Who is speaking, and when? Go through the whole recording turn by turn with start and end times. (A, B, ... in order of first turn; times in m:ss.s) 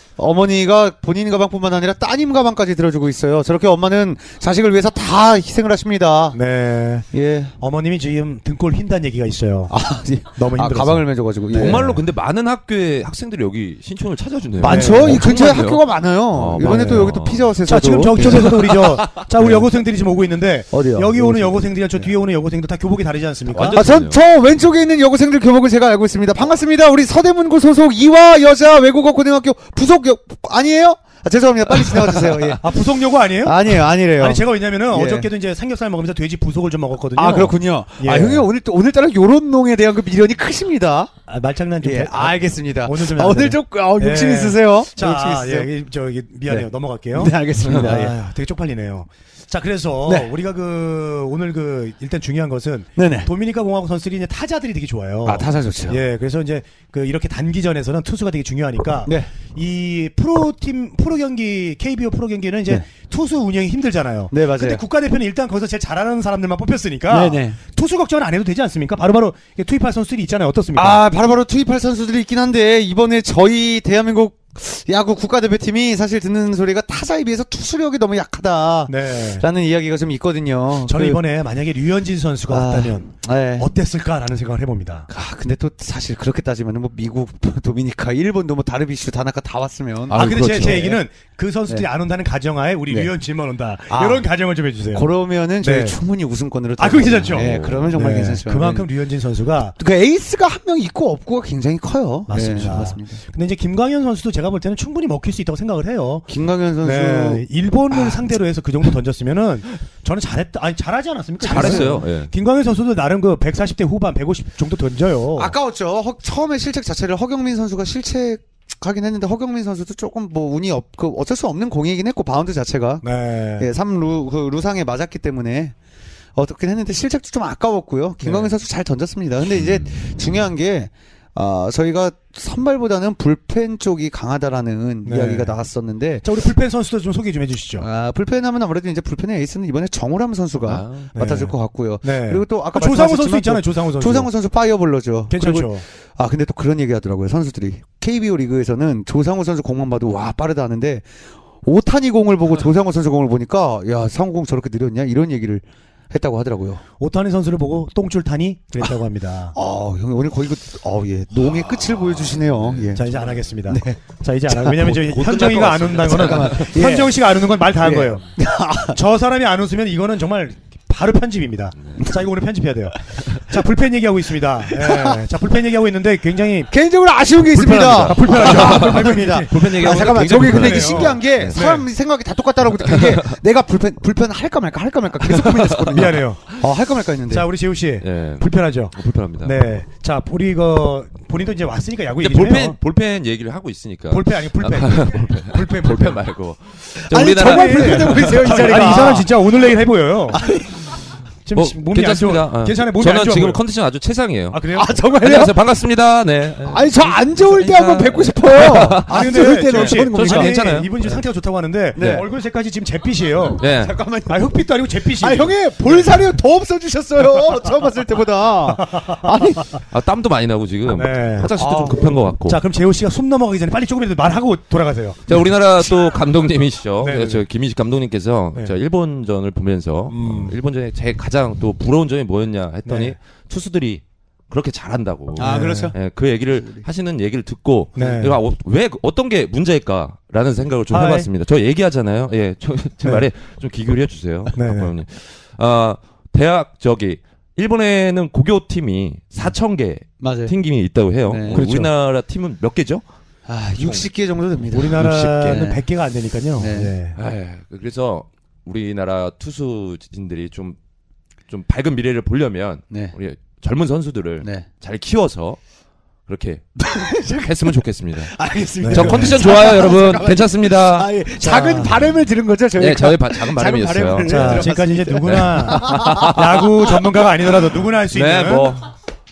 0:00.2-0:06.4 A
0:06.3-0:07.0 B
0:07.1-0:07.5 A
0:07.6-0:09.7 B
0:09.7-0:11.9 A
0:10.3-0:12.0 B
0:11.5-0:17.5 C
0:14.6-0:18.8 A
0:14.6-0:15.3 B
0:16.6-0:17.1 B
0:17.6-0:23.8 B
0:18.2-0:19.1 C
0:19.4-0:19.7 A
0:20.7-0:22.1 A
0:23.5-0:24.2 C
0:23.7-0:35.3 A
0:32.6-0:38.5 B
0:37.2-0:41.1 A
0:41.3-1:11.0 B
0:41.8-0:45.7 A
0:46.5-0:48.1 A
0:50.0-0:50.3 A
0:53.0-0:53.3 A
0:55.2-0:56.0 A
1:04.3-1:04.8 A
1:07.1-1:07.6 A
1:10.8-1:21.2 A
1:18.9-1:19.4 B
1:20.9-1:25.1 B
1:22.5-1:23.7 A
1:25.1-1:31.0 A
1:30.1-1:30.9 C
1:30.1-1:35.1 B
1:33.9-1:34.2 A
1:34.9-1:38.9 A
1:35.6-1:36.0 B
1:36.8-1:39.8 B
1:37.3-1:38.0 C
1:39.8-1:43.2 A
1:42.3-1:46.2 B
1:46.3-1:48.3 A
1:46.8-1:55.5 B
1:51.4-1:52.0 A
1:51.4-1:52.3 C
1:55.4-2:03.0 A
2:03.0-2:03.7 B
2:03.6-2:05.7 A
2:06.3-2:16.2 A
2:08.2-2:08.5 B
2:09.6-2:10.0 C
2:15.0-2:15.5 B
2:16.2-2:17.9 B
2:17.8-2:31.1 A
2:20.7-2:21.1 C
2:21.1-2:24.3 B
2:25.3-2:25.8 B
2:31.6-2:36.8 A
2:37.0-2:39.5 B
2:39.5-2:45.2 A
2:41.6-2:43.2 C
2:42.9-2:48.2 B
2:44.9-2:46.7 C
2:46.0-2:49.0 A
2:48.9-2:56.7 B
2:54.7-2:55.2 A
2:56.7-3:07.5 A
2:57.6-3:01.6 C
2:57.6-3:01.8 B
3:02.9-3:03.3 C
3:05.2-3:06.6 C
3:05.9-3:06.4 B
3:07.3-3:12.8 B
3:08.0-3:09.6 C
3:12.2-3:19.2 C
3:14.1-3:16.2 B
3:17.0-3:19.3 A
3:17.2-3:20.4 B
3:20.3-3:20.8 A
3:21.4-3:23.6 B
3:21.5-3:24.6 C
3:24.5-3:24.9 B
3:24.7-3:25.6 A
3:25.2-3:30.9 C
3:26.6-3:30.7 A
3:29.0-3:33.6 B
3:31.9-3:32.2 A
3:32.0-3:32.2 C
3:33.6-3:33.9 C
3:33.6-3:34.5 A
3:34.3-3:36.2 B
3:35.0-3:39.7 A
3:38.8-3:39.3 B
3:39.9-3:42.6 C
3:40.9-3:41.6 B
3:41.5-3:42.2 A
3:42.4-3:45.4 B
3:45.3-4:13.0 C
3:47.0-3:47.4 B
3:50.1-3:50.6 B
3:52.8-3:53.1 B
3:55.4-3:56.0 A
3:55.4-3:55.9 B
3:58.0-3:58.4 B
4:00.9-4:01.3 B
4:04.5-4:04.9 B
4:10.2-4:10.5 A
4:11.3-4:11.6 A
4:11.5-4:11.9 B
4:13.5-4:15.8 A
4:13.8-4:14.0 C
4:14.7-4:17.2 B
4:15.0-4:15.6 C
4:16.6-4:16.9 A
4:17.2-4:20.8 C
4:21.5-4:25.6 C
4:24.4-4:24.7 A
4:26.3-4:31.1 C
4:26.8-4:36.4 A
4:28.8-4:29.4 B
4:31.4-4:32.0 B
4:32.8-4:37.0 C
4:34.2-4:38.8 B
4:38.1-4:38.9 C